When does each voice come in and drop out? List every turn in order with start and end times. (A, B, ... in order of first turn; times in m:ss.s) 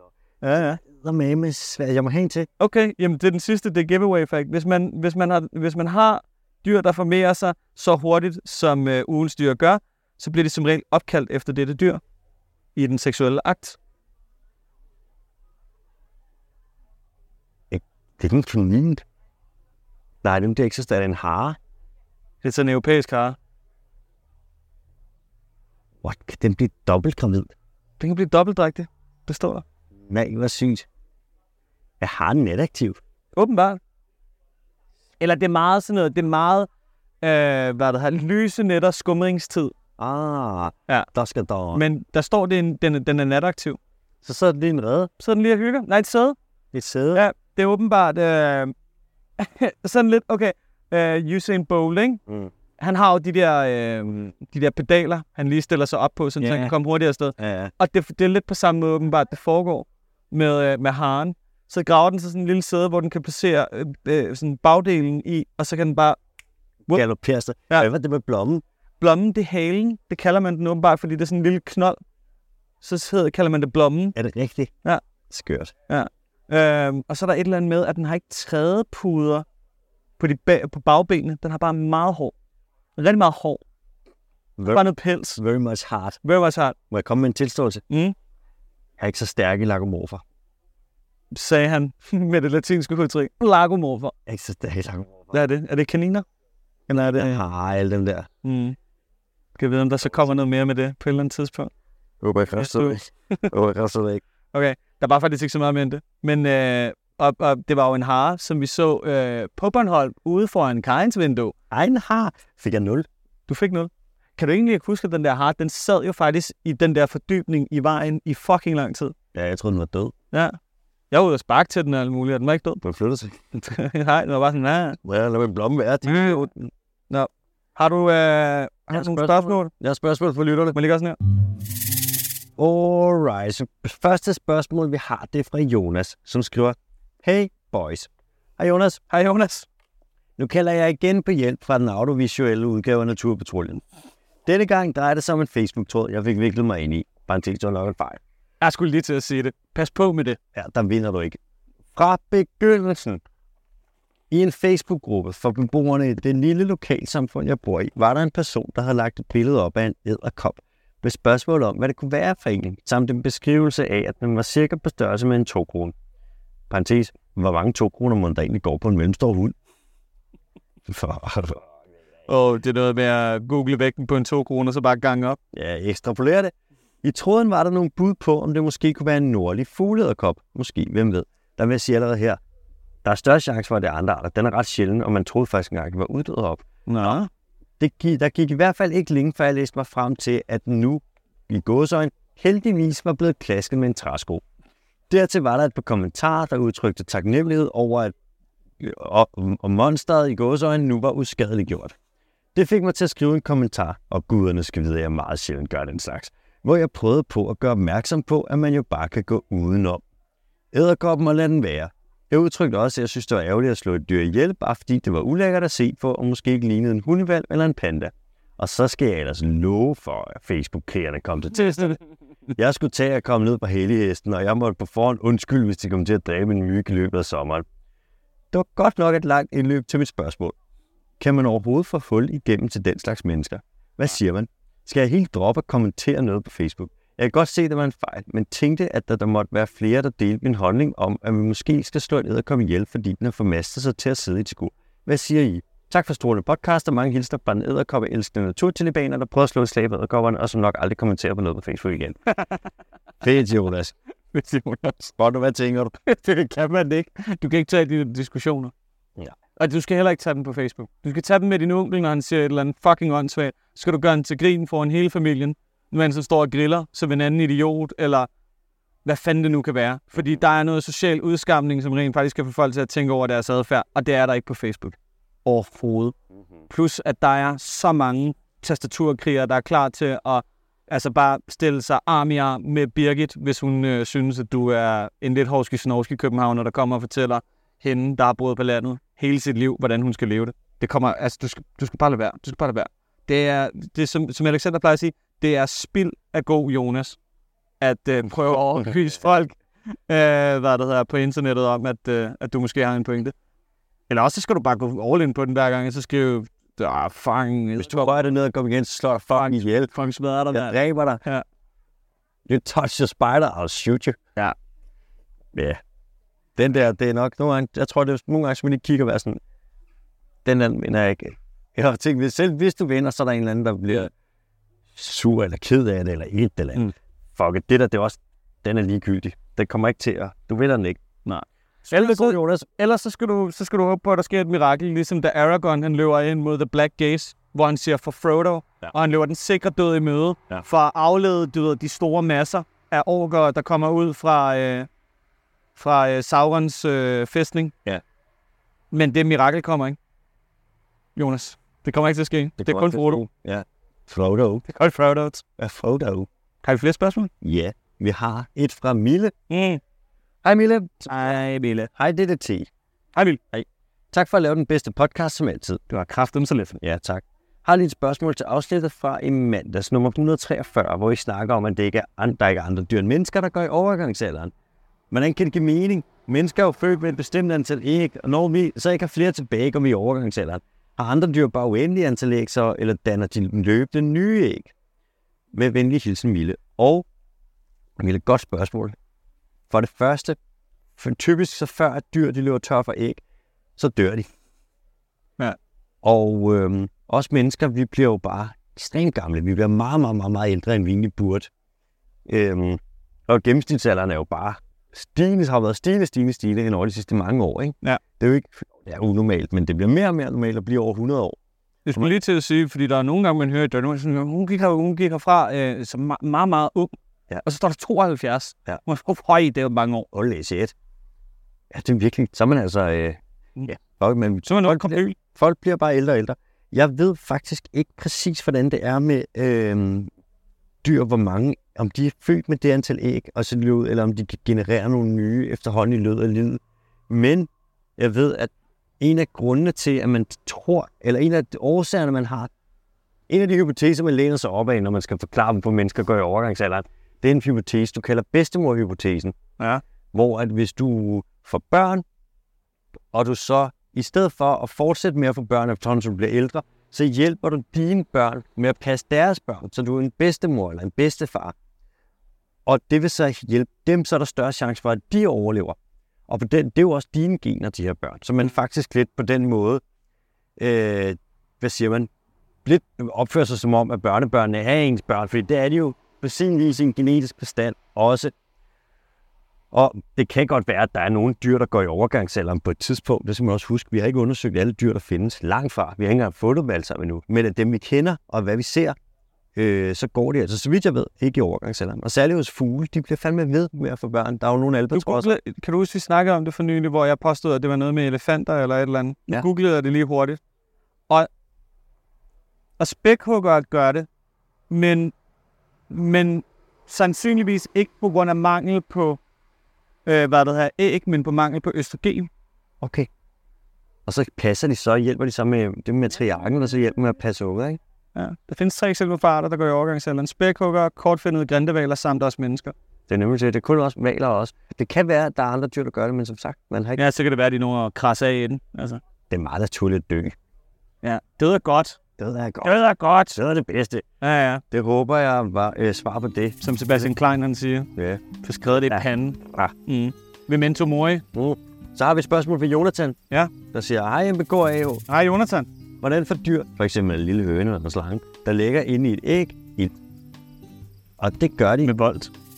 0:00.4-0:00.8 A
0:00.5-0:02.5 B
0:02.6-0:12.0 A
0:12.8-0:13.8 A
0:17.7-0:19.0 B
0:20.2-0:21.6 B
0:22.4-0:23.4 A
0:26.0-0:27.5 B
0:28.0-0:29.6 A
0:30.1-0:30.9 B
0:32.0-0:33.0 B
0:33.3-0:33.8 A
0:35.2-0:36.7 A
0:37.2-0:39.7 A
0:40.0-0:41.8 B
0:41.7-0:43.8 A
0:44.2-0:45.1 B
0:45.2-0:46.4 A
0:46.7-0:47.2 B
0:47.1-0:48.7 A
0:49.4-0:52.2 A
0:52.8-1:06.2 A
0:56.4-0:56.7 B
0:57.4-0:57.7 B
1:06.9-1:08.6 B
1:09.0-1:12.0 A
1:12.8-1:14.1 A
1:14.2-1:14.7 B
1:15.3-1:15.7 B
1:15.9-1:19.4 A
1:20.2-1:22.3 A
1:23.0-1:23.6 A
1:24.6-1:26.2 B
1:24.7-1:25.4 A
1:26.2-1:26.8 A
1:26.9-1:27.8 B
1:27.9-1:28.1 A
1:29.0-1:30.2 B
1:31.3-1:34.1 A
1:34.3-1:35.3 B
1:35.3-1:36.2 A
1:36.9-1:38.3 B
1:38.4-1:38.8 A
1:39.5-1:41.7 A
1:42.2-1:44.2 B
1:42.6-1:43.5 A
1:44.5-1:51.5 A
1:51.7-1:53.1 B
1:53.5-1:59.1 A
1:59.3-2:00.1 B
2:01.1-2:02.8 A
2:02.8-2:03.6 B
2:03.5-2:05.0 A
2:05.0-2:06.7 B
2:06.0-2:06.5 A
2:07.1-2:09.7 A
2:08.9-2:10.8 B
2:10.7-2:11.2 A
2:12.6-2:19.0 B
2:19.1-2:19.7 A
2:20.4-2:23.8 B
2:24.4-2:28.2 B
2:28.6-2:30.4 A
2:30.5-2:31.4 B
2:31.9-2:33.2 B
2:34.3-2:45.9 B
2:46.7-2:49.5 B
2:50.9-2:51.6 B
2:52.3-2:55.4 A
2:55.5-2:56.5 B
2:57.0-3:02.4 B
3:03.0-3:07.2 B
3:06.9-3:07.3 A
3:07.8-3:14.4 B
3:15.1-3:18.1 B
3:18.8-3:21.9 B
3:22.5-3:30.0 B
3:30.7-3:42.0 B
3:41.5-3:42.0 A
3:42.6-3:47.6 B
3:48.5-3:50.5 B
3:51.2-4:12.2 B
4:13.2-4:13.9 B
4:14.3-4:15.0 A
4:15.0-4:16.0 B
4:16.0-4:18.7 A
4:19.6-4:28.3 A
4:29.0-4:36.1 A
4:36.7-4:57.2 A
4:57.8-5:03.3 A
5:04.1-5:08.2 A
5:07.8-5:09.9 B
5:09.3-5:11.4 A
5:10.5-5:11.2 B
5:12.5-5:14.2 B
5:15.5-5:15.8 B
5:16.6-5:19.4 B
5:20.4-5:24.1 B
5:24.9-5:26.8 B
5:27.4-5:31.0 B
5:31.2-5:44.9 A
5:31.9-5:32.7 B
5:45.8-5:47.7 A
5:48.9-5:50.0 A
5:51.2-5:53.2 A
5:52.6-5:54.6 B
5:54.7-5:55.4 A
5:55.6-5:56.3 B
5:56.6-5:57.3 A
5:57.4-5:59.3 B
5:59.5-5:59.8 A
6:00.4-6:01.2 B
6:01.1-6:01.9 A
6:01.9-6:02.7 B
6:03.1-6:03.4 A
6:03.5-6:05.8 B
6:05.9-6:06.8 A
6:06.8-6:14.5 B
6:15.1-6:24.7 B
6:25.5-6:27.0 B
6:28.0-6:29.0 B
6:29.7-6:30.4 B
6:31.0-6:33.2 B
6:33.8-6:34.3 B
6:36.0-6:41.5 B
6:42.2-6:51.4 B
6:51.8-7:00.1 A
7:00.1-7:00.7 B
7:01.7-7:10.1 B
7:04.5-7:05.2 A
7:10.8-7:22.5 B
7:23.3-7:29.4 B
7:30.1-7:32.0 B
7:33.1-7:41.5 B
7:42.6-7:45.8 B
7:46.3-7:49.8 B
7:50.6-7:52.1 B
7:52.6-7:58.3 B
7:59.7-8:09.0 B
8:09.6-8:15.3 B
8:14.9-8:20.4 A
8:22.8-8:24.1 A
8:24.7-8:25.1 A
8:25.9-8:29.2 A
8:30.0-8:32.3 A
8:32.8-8:33.1 B
8:34.0-8:37.8 B
8:38.1-8:42.7 A
8:43.1-8:47.0 B
8:47.0-8:49.0 A
8:49.3-8:50.3 B
8:51.0-8:52.0 A
8:52.2-8:52.8 B
8:52.6-8:53.4 A
8:53.3-8:54.0 B
8:54.2-8:54.6 A
8:54.7-8:56.6 B
8:56.6-9:01.2 A
8:58.0-8:58.2 B
8:58.8-8:59.7 B
9:01.3-9:05.0 B
9:05.1-9:05.7 A
9:06.0-9:09.9 B
9:11.2-9:11.9 B
9:11.8-9:12.3 A